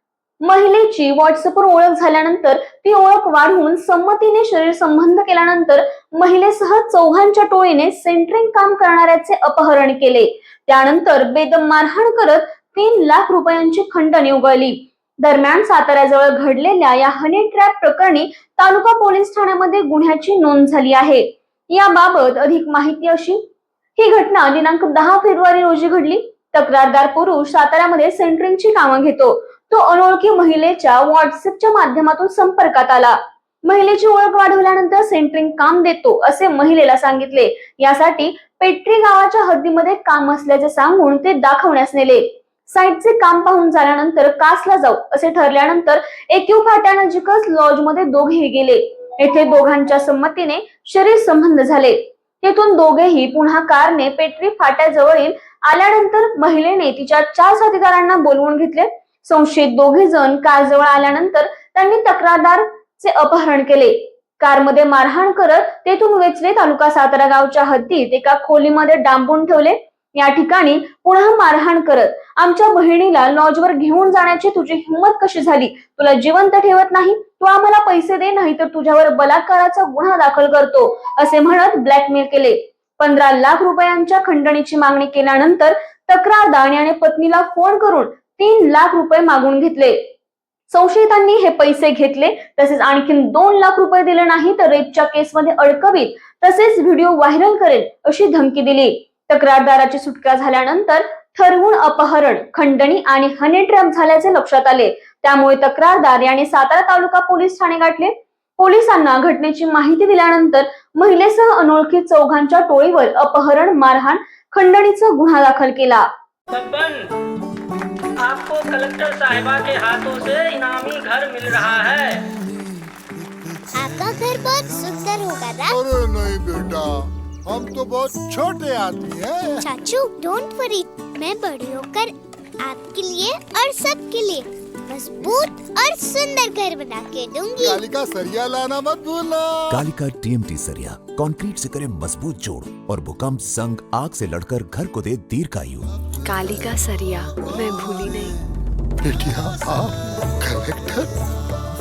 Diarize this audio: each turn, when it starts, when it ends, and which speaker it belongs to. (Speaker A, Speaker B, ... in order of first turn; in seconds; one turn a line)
Speaker A: 0.4-23.4
Speaker A: 23.9-90.0
Speaker A: 90.7-116.1
Speaker B: 116.5-117.1
Speaker B: 118.2-122.2
Speaker C: 123.8-125.8
Speaker D: 125.7-127.0
Speaker D: 127.5-129.5
Speaker C: 129.6-137.8
Speaker D: 137.6-139.5
Speaker E: 139.7-145.9
Speaker F: 146.2-148.4
Speaker D: 149.0-151.1